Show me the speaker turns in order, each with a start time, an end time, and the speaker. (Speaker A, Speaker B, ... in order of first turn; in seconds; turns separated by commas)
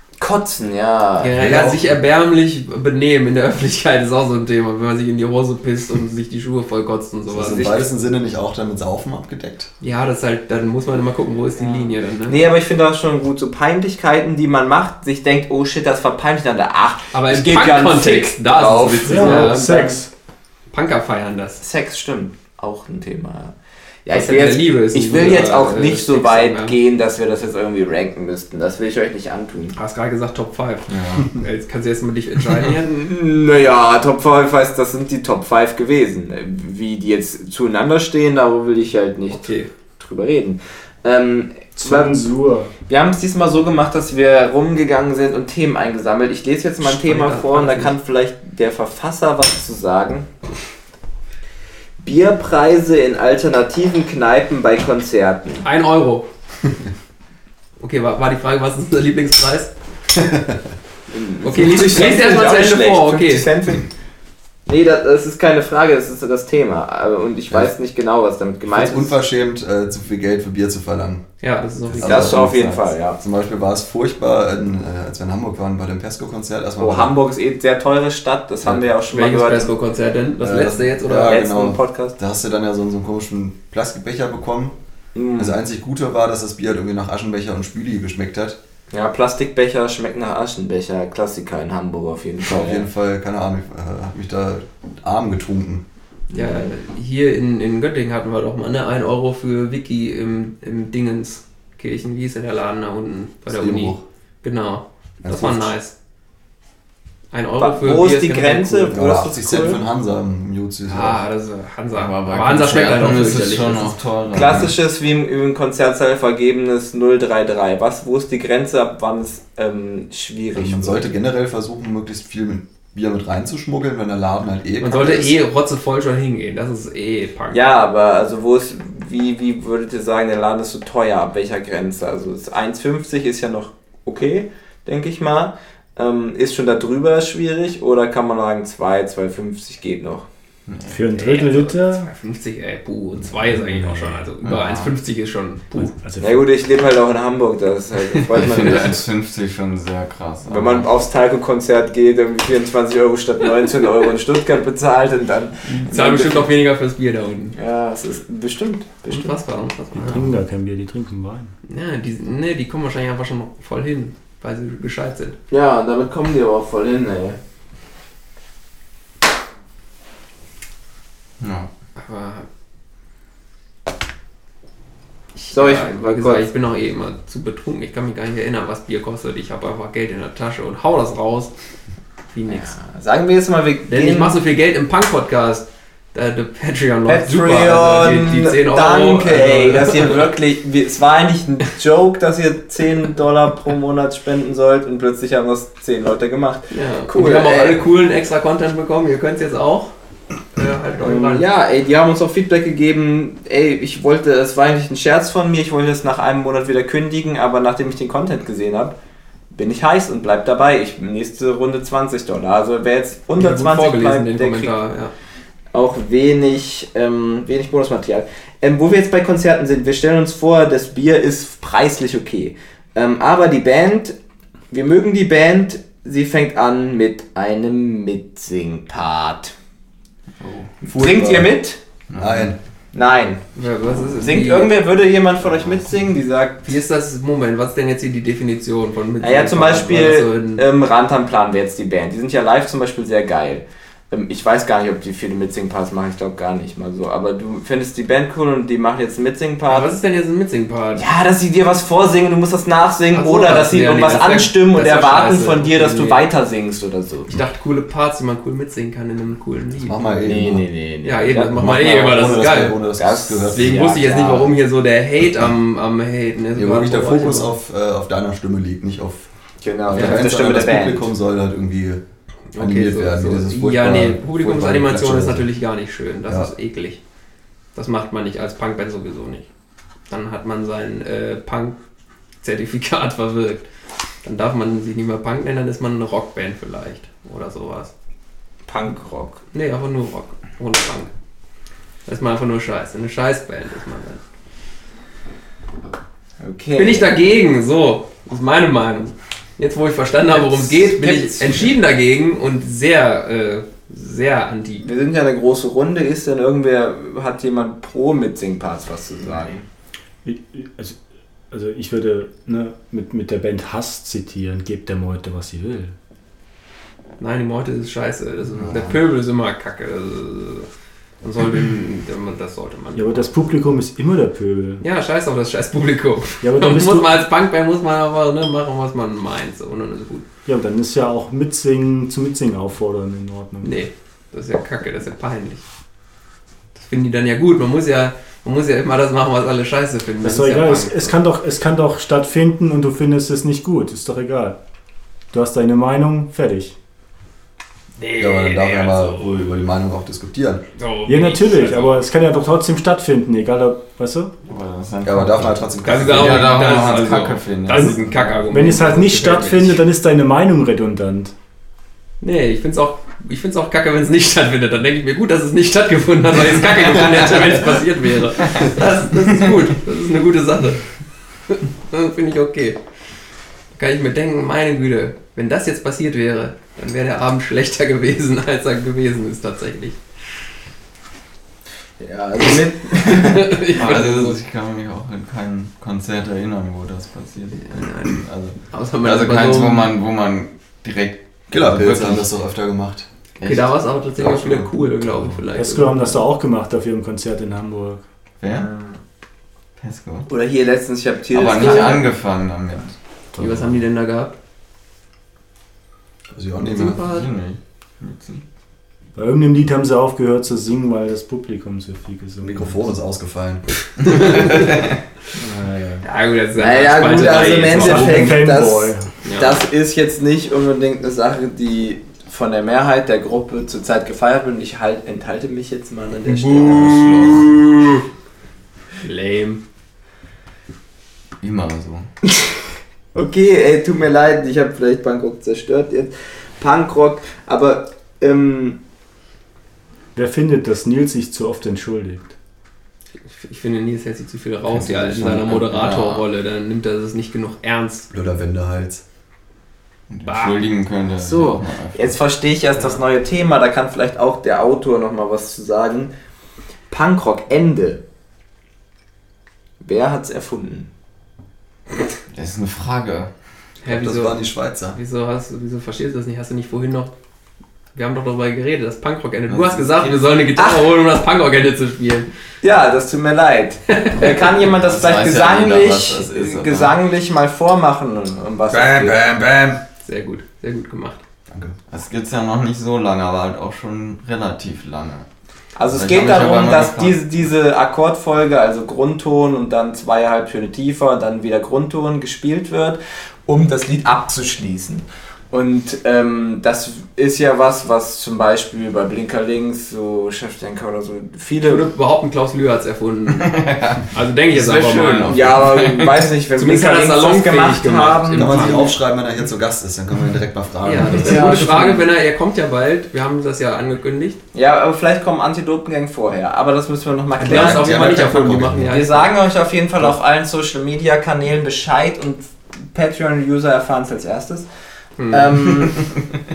Speaker A: 0.2-1.4, Speaker B: 1.2-7.9, Speaker C: 1.3-2.0, Speaker C: 7.3-9.7, Speaker A: 7.4-7.9, Speaker B: 9.8-12.4, Speaker A: 11.6-19.6, Speaker B: 17.1-20.0, Speaker D: 19.0-20.1, Speaker B: 20.7-21.6, Speaker A: 21.6-23.5, Speaker A: 24.1-29.8, Speaker B: 24.1-26.8, Speaker B: 29.7-33.0, Speaker E: 30.9-31.4, Speaker A: 32.6-42.2, Speaker B: 39.3-39.7, Speaker D: 41.8-42.7, Speaker A: 42.9-50.3, Speaker B: 46.8-48.0, Speaker A: 52.0-55.6, Speaker B: 55.6-56.3, Speaker B: 57.8-59.7, Speaker C: 60.2-60.5, Speaker A: 61.1-63.9, Speaker B: 61.4-63.5, Speaker A: 64.7-69.1, Speaker C: 68.7-71.2, Speaker B: 71.4-72.9, Speaker C: 71.8-72.6, Speaker A: 72.0-73.2, Speaker C: 73.2-77.1, Speaker A: 76.8-79.7, Speaker B: 79.1-81.5, Speaker C: 80.4-84.8, Speaker A: 81.1-82.2, Speaker A: 85.2-85.6, Speaker C: 85.3-88.6, Speaker A: 88.9-92.9, Speaker C: 92.5-95.8, Speaker B: 96.3-105.9, Speaker C: 103.5-104.0, Speaker C: 105.2-105.7, Speaker B: 107.3-108.9, Speaker A: 107.6-109.8, Speaker C: 108.9-111.2, Speaker B: 110.9-114.0, Speaker E: 112.0-114.8, Speaker A: 114.3-121.1, Speaker C: 120.5-125.4, Speaker B: 124.8-127.6, Speaker A: 127.5-140.3, Speaker E: 140.7-141.0, Speaker D: 140.9-142.1, Speaker B: 141.1-146.0, Speaker D: 143.5-144.2, Speaker E: 144.4-144.9, Speaker D: 145.8-146.4, Speaker A: 146.2-149.1, Speaker E: 148.3-150.9, Speaker A: 150.5-156.5, Speaker B: 155.8-157.6, Speaker A: 157.6-159.4, Speaker B: 159.1-160.4, Speaker D: 160.1-161.5, Speaker B: 161.7-165.4, Speaker A: 165.5-167.4, Speaker E: 171.4-171.7, Speaker B: 172.0-172.5, Speaker B: 175.4-181.5, Speaker A: 175.5-176.5, Speaker B: 182.3-182.8, Speaker A: 182.5-184.4, Speaker B: 183.9-190.3, Speaker A: 187.1-197.8, Speaker B: 196.7-199.9, Speaker B: 200.5-201.5, Speaker A: 201.0-209.0, Speaker A: 209.5-214.8, Speaker B: 213.4-215.1, Speaker A: 215.7-224.2, Speaker A: 224.7-229.5, Speaker E: 230.4-230.7, Speaker A: 230.8-231.8, Speaker C: 230.8-231.6, Speaker E: 232.1-232.6, Speaker C: 232.2-232.6, Speaker A: 232.9-233.4, Speaker B: 233.6-234.7, Speaker A: 234.2-236.7, Speaker B: 236.6-240.7, Speaker A: 239.2-249.9, Speaker B: 249.7-251.1, Speaker A: 251.0-257.3, Speaker B: 253.1-256.2, Speaker B: 257.3-260.2, Speaker C: 259.8-260.7, Speaker A: 260.2-261.8, Speaker B: 261.0-262.8, Speaker C: 261.5-264.0, Speaker A: 263.0-264.5, Speaker B: 263.4-267.5, Speaker C: 266.6-269.3, Speaker A: 269.6-271.1, Speaker C: 269.9-272.0, Speaker B: 270.0-270.2, Speaker B: 272.5-277.0, Speaker C: 272.6-275.5, Speaker B: 277.8-279.5, Speaker B: 280.1-281.8, Speaker B: 282.4-283.7, Speaker B: 284.2-287.9, Speaker A: 288.7-289.4, Speaker B: 289.5-291.1, Speaker B: 292.1-294.2, Speaker A: 296.4-297.2, Speaker B: 296.8-304.9, Speaker A: 300.3-301.7, Speaker A: 304.8-309.6, Speaker D: 310.2-311.0, Speaker D: 311.5-315.9, Speaker B: 317.2-320.7, Speaker E: 318.6-319.0, Speaker B: 321.2-323.3, Speaker D: 322.9-324.8, Speaker B: 324.8-330.2, Speaker D: 326.4-327.2, Speaker D: 330.4-333.7, Speaker B: 333.6-335.6, Speaker B: 336.8-341.2, Speaker D: 340.2-344.6, Speaker D: 345.3-346.8, Speaker B: 348.0-349.4, Speaker C: 348.2-350.6, Speaker B: 350.8-352.1, Speaker D: 351.1-354.3, Speaker E: 354.5-358.2, Speaker C: 355.0-356.6, Speaker B: 355.8-359.8, Speaker D: 357.7-358.0, Speaker D: 358.5-361.3, Speaker B: 362.2-370.9, Speaker B: 371.5-372.8, Speaker B: 373.7-380.0, Speaker A: 382.0-383.6, Speaker B: 382.9-384.4, Speaker E: 383.8-392.3, Speaker B: 387.6-389.9, Speaker C: 391.5-393.1, Speaker E: 393.4-393.7, Speaker B: 393.4-396.2, Speaker C: 394.2-394.7, Speaker D: 395.5-398.0, Speaker E: 398.4-398.7, Speaker A: 398.5-399.0, Speaker E: 399.8-400.3, Speaker A: 400.3-402.1, Speaker E: 401.3-402.9, Speaker B: 401.6-402.0, Speaker D: 403.4-403.7, Speaker B: 403.4-404.4, Speaker C: 406.3-407.1, Speaker B: 406.7-407.3, Speaker E: 406.7-408.4, Speaker D: 409.1-412.8, Speaker C: 412.4-414.3, Speaker B: 414.0-414.7, Speaker D: 415.4-416.1, Speaker B: 416.0-418.5, Speaker A: 416.6-427.2, Speaker D: 417.6-419.1, Speaker B: 419.2-419.6, Speaker E: 426.3-427.6, Speaker B: 426.6-427.6, Speaker B: 429.0-429.6, Speaker E: 431.4-432.1, Speaker A: 433.1-438.8, Speaker D: 440.1-442.3, Speaker B: 443.3-448.1, Speaker E: 444.8-446.2, Speaker C: 448.1-449.0, Speaker E: 450.1-452.2, Speaker B: 450.2-450.6, Speaker A: 451.2-456.1, Speaker B: 452.8-453.0, Speaker A: 456.9-458.0, Speaker A: 459.8-460.9, Speaker E: 462.3-463.3, Speaker B: 463.8-467.1, Speaker C: 463.8-465.0, Speaker B: 467.9-472.3, Speaker E: 469.5-470.2, Speaker A: 470.6-470.9, Speaker A: 472.6-479.2, Speaker B: 474.0-474.3, Speaker E: 474.6-477.0, Speaker C: 478.7-479.8, Speaker B: 480.0-481.2, Speaker C: 481.5-481.8, Speaker E: 481.9-485.3, Speaker A: 485.8-501.9, Speaker E: 485.9-487.3, Speaker B: 501.6-503.6, Speaker E: 503.3-506.3, Speaker B: 504.1-505.4, Speaker A: 505.3-508.9, Speaker B: 506.6-509.0, Speaker C: 508.3-511.7, Speaker B: 510.8-514.4, Speaker A: 511.2-512.0, Speaker A: 514.5-518.2, Speaker B: 517.4-519.3, Speaker C: 517.4-519.0, Speaker A: 518.9-524.7, Speaker B: 525.2-525.5, Speaker A: 525.3-526.1